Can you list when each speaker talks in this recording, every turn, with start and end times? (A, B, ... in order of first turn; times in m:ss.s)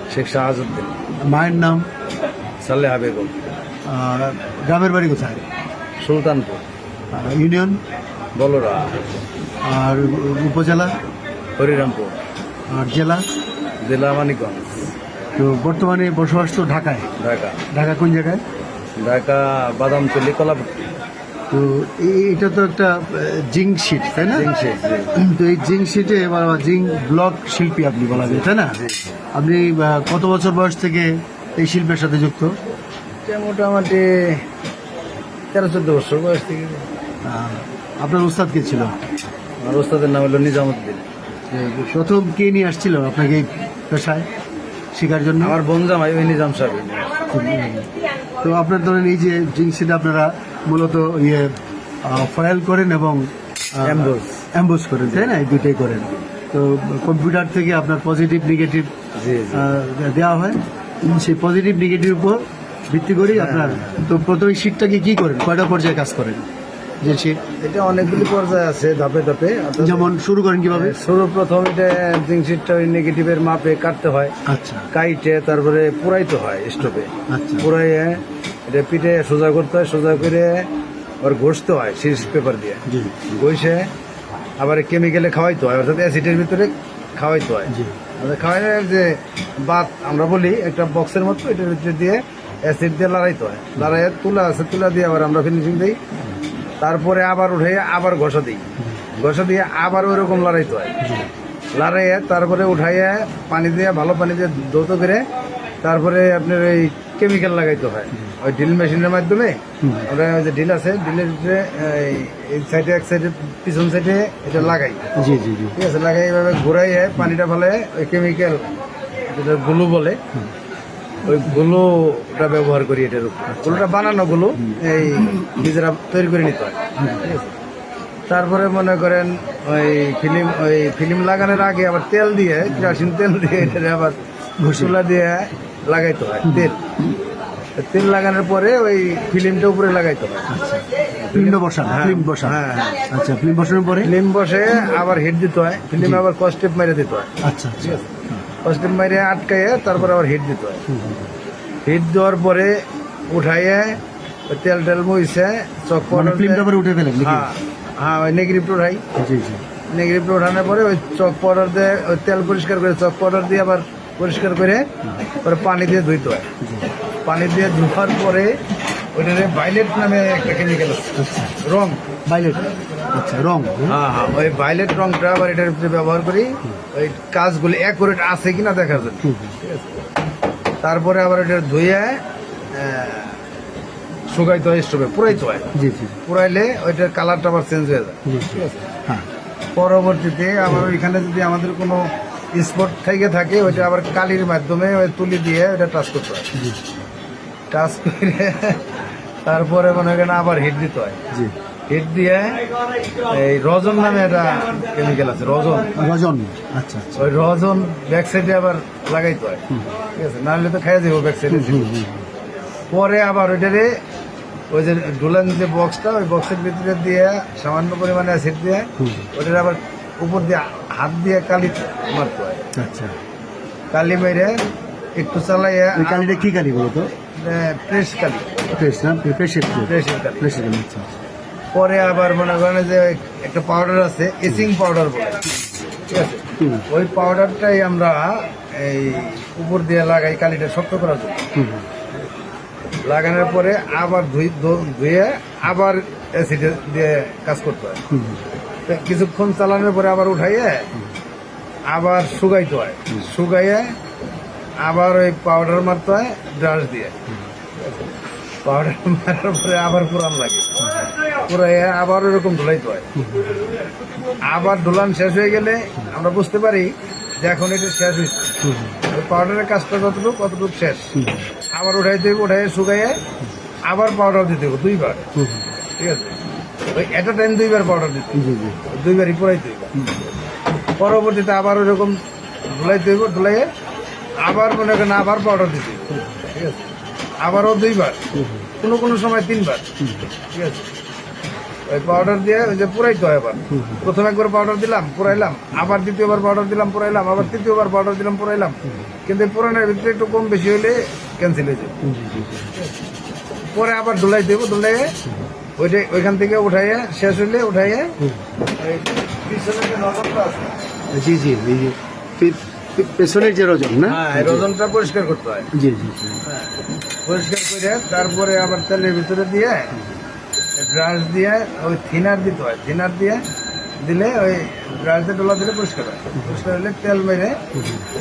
0:00.1-0:01.0 A
0:01.2-0:01.9 B
0:02.6-0:03.3 A
0:03.9-0:05.4 B
0:06.0-0:06.6 A
0:07.1-0:07.8 B
0:08.4-0:08.9 A
0:09.6-0:11.0 B
0:11.6-0:12.2 A
0:12.7-0:13.3 B
0:13.8-0:14.9 A
0:15.4-0:17.1 B
0:17.2-0:17.6 A
0:17.7-0:18.4 B
0:19.0-0:20.9 A
0:21.5-0:24.5 B
0:24.3-0:25.3 A
0:25.2-0:28.8 B
0:28.1-0:29.1 A
0:29.3-0:32.6 B
0:33.3-0:34.4 A
0:35.5-0:36.8 A
0:37.2-0:39.0 B
0:39.6-0:41.1 A
0:41.5-0:44.3 B
0:44.9-0:45.6 B
0:45.4-0:47.1 A
0:47.3-0:58.9 B
0:53.8-0:54.5 A
0:55.1-0:55.4 A
0:59.2-0:59.7 A
0:59.5-1:06.5 B
1:03.3-1:03.9 A
1:07.0-1:07.4 B
1:07.6-1:10.2 A
1:09.8-1:11.0 B
1:10.7-1:14.3 A
1:14.5-1:14.9 B
1:14.9-1:20.7 A
1:17.3-1:17.7 B
1:21.2-1:23.9 A
1:22.9-1:23.3 B
1:24.6-1:36.0 A
1:27.7-1:28.0 B
1:36.8-1:41.0 A
1:41.0-1:41.3 B
1:41.8-1:45.2 A
1:45.8-1:55.1 A
1:49.8-1:50.1 B
1:55.2-1:55.8 B
1:55.7-1:58.7 A
1:59.3-2:00.2 A
2:01.2-2:07.5 A
2:03.5-2:03.9 B
2:04.6-2:05.2 B
2:08.3-2:16.9 A
2:14.6-2:15.0 B
2:16.4-2:16.7 B
2:17.8-2:20.6 A
2:20.5-2:24.1 B
2:21.2-2:23.0 A
2:24.0-2:28.1 A
2:27.4-2:28.4 B
2:28.6-2:30.8 A
2:30.9-2:31.3 B
2:31.8-2:36.7 A
2:36.1-2:37.5 B
2:37.2-2:39.0 A
2:39.2-2:39.6 B
2:39.9-2:44.9 A
2:45.4-2:46.5 A
2:46.6-2:46.9 B
2:47.3-2:48.6 A
2:49.2-2:52.0 A
2:51.2-2:51.6 B
2:52.3-2:54.0 B
2:53.9-2:59.9 A
2:59.2-2:59.6 B
3:00.8-3:03.4 A
3:04.3-3:05.7 A
3:05.8-3:06.2 B
3:06.3-3:08.9 A
3:08.3-3:09.3 B
3:09.8-3:16.5 A
3:16.6-3:16.8 B
3:17.7-3:21.2 A
3:21.9-3:22.6 A
3:23.3-3:25.9 A
3:25.9-3:27.3 B
3:27.2-3:31.9 A
3:31.5-3:32.3 B
3:32.9-3:34.0 A
3:34.7-3:42.6 A
3:39.0-3:39.3 B
3:42.7-3:43.2 B
3:43.9-3:44.6 A
3:45.2-3:46.5 A
3:46.0-3:47.1 B
3:47.3-3:48.6 A
3:48.7-3:51.2 B
3:49.8-3:50.6 A
3:51.7-3:55.5 A
3:56.1-4:01.4 A
3:56.6-3:56.9 B
4:01.6-4:01.9 B
4:03.0-4:08.0 A
4:08.1-4:08.4 B
4:08.9-4:10.9 A
4:11.9-4:13.9 A
4:14.8-4:17.2 A
4:18.6-4:23.1 A
4:23.2-4:23.7 B
4:24.4-4:26.9 A
4:27.4-4:31.2 A
4:28.6-4:29.0 B
4:31.2-4:31.5 B
4:31.7-4:33.2 A
4:33.8-4:35.3 A
4:35.4-4:35.7 B
4:36.0-4:36.4 A
4:36.9-4:40.1 A
4:38.4-4:38.8 B
4:40.8-4:43.7 A
4:44.4-4:48.2 A
4:48.4-4:48.7 B
4:48.8-4:49.9 A
4:50.5-4:50.9 A
4:51.9-5:02.0 A
4:53.7-4:54.0 B
5:02.0-5:02.8 B
5:03.7-5:05.2 A
5:05.8-5:08.2 A
5:08.8-5:10.8 A
5:11.1-5:14.7 B
5:14.1-5:15.7 A
5:15.7-5:16.4 B
5:16.4-5:20.0 A
5:20.8-5:23.4 A
5:24.0-5:27.6 A
5:26.4-5:26.6 B
5:27.8-5:28.1 B